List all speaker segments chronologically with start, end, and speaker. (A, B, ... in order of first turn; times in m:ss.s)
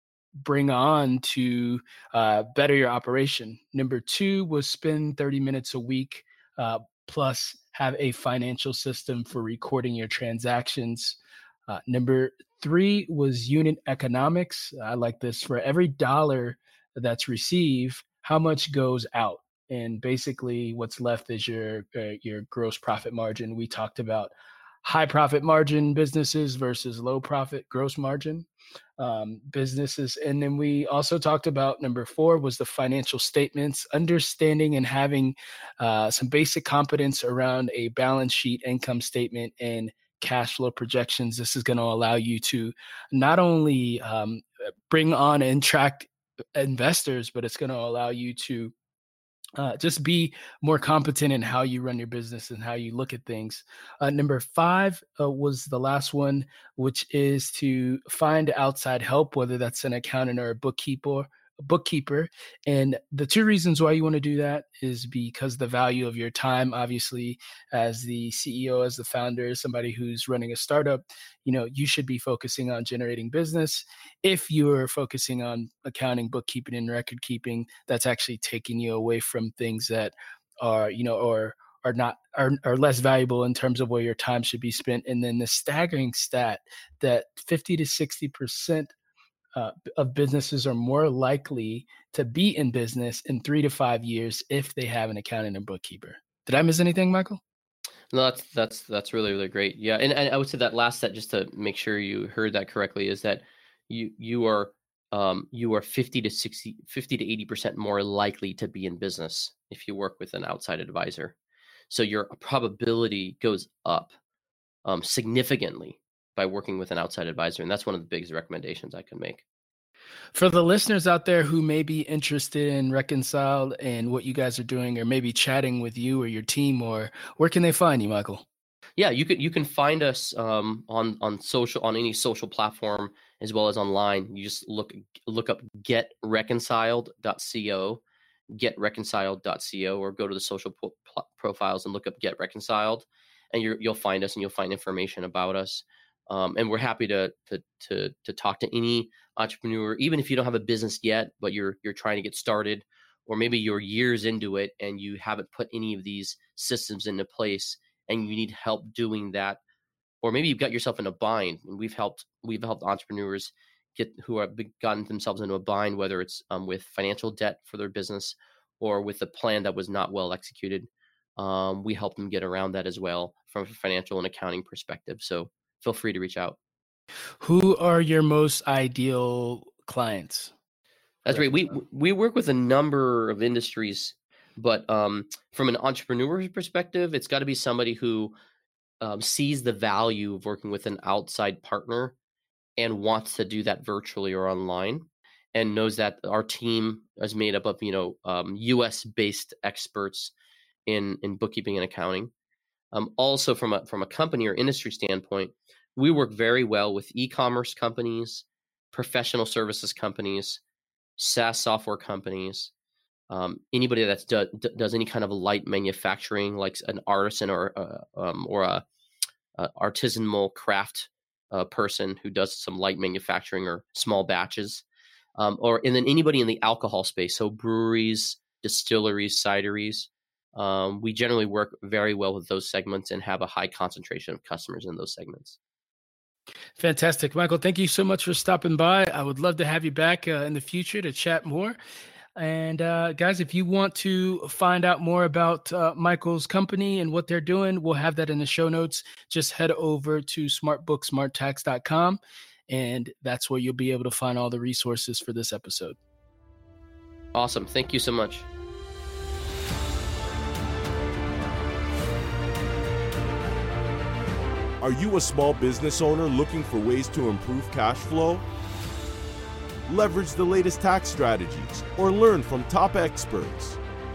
0:00.4-0:24.3 A
0:24.8-0:48.7 A
0:49.6-1:28.9 A
1:29.5-1:37.4 A
1:38.1-1:51.4 B
1:51.9-1:54.1 B
1:54.8-1:59.4 B
2:00.3-2:08.4 A
2:09.0-2:39.6 B
2:40.2-2:56.6 B
2:57.4-3:00.5 A
3:01.2-3:08.3 B
3:01.3-3:01.7 A
3:09.0-3:12.1 B
3:12.8-3:20.3 B
3:20.9-3:22.3 B
3:22.9-3:30.6 B
3:31.2-3:32.7 B
3:33.3-3:38.8 B
3:39.6-3:44.8 B
3:45.4-3:55.6 B
3:56.8-4:01.8 A
4:02.4-4:16.0 A
4:17.3-4:18.5 B
4:24.8-4:28.4 C
4:29.9-4:33.8 C